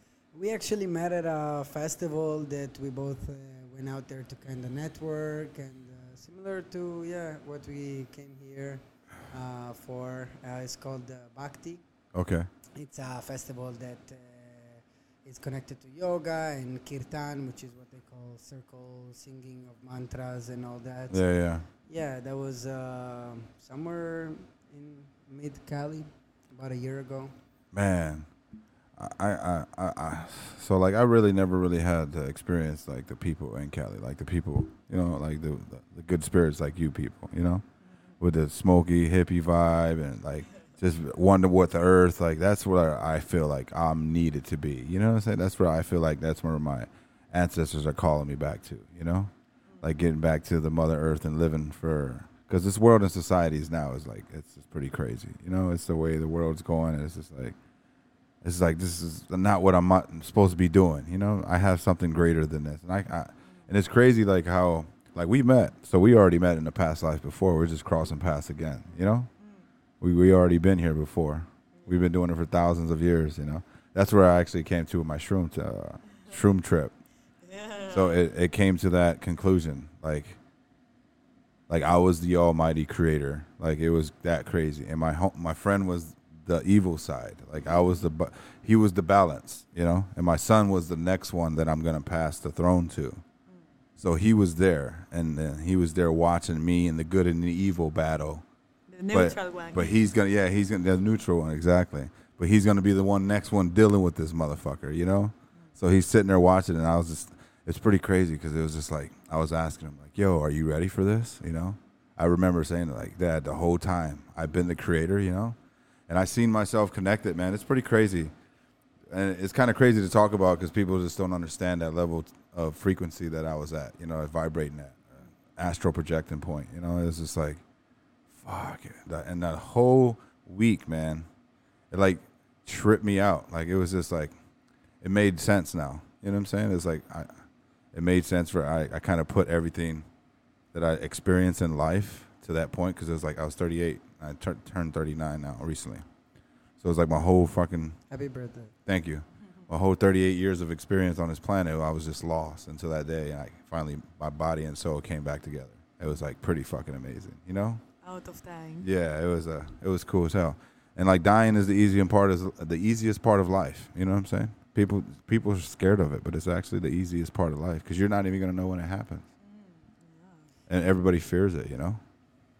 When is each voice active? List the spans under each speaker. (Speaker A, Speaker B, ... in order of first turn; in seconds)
Speaker A: 0.3-11.8, 12.7-27.3, 148.1-148.7
Speaker B: 12.1-12.5, 21.1-21.7, 27.7-28.3, 28.9-37.6, 38.2-57.5, 58.4-69.3, 70.0-76.9, 77.9-80.4, 81.7-93.2, 94.0-98.4, 99.1-118.3, 119.1-127.6, 128.3-131.3, 131.9-134.4, 135.0-140.1, 140.7-146.1, 146.7-148.0, 148.8-157.9, 158.8-169.3, 170.7-172.0
Speaker C: 63.4-63.7, 68.8-69.7, 71.7-72.0, 77.4-78.2, 98.9-99.9, 158.0-158.9, 169.4-170.5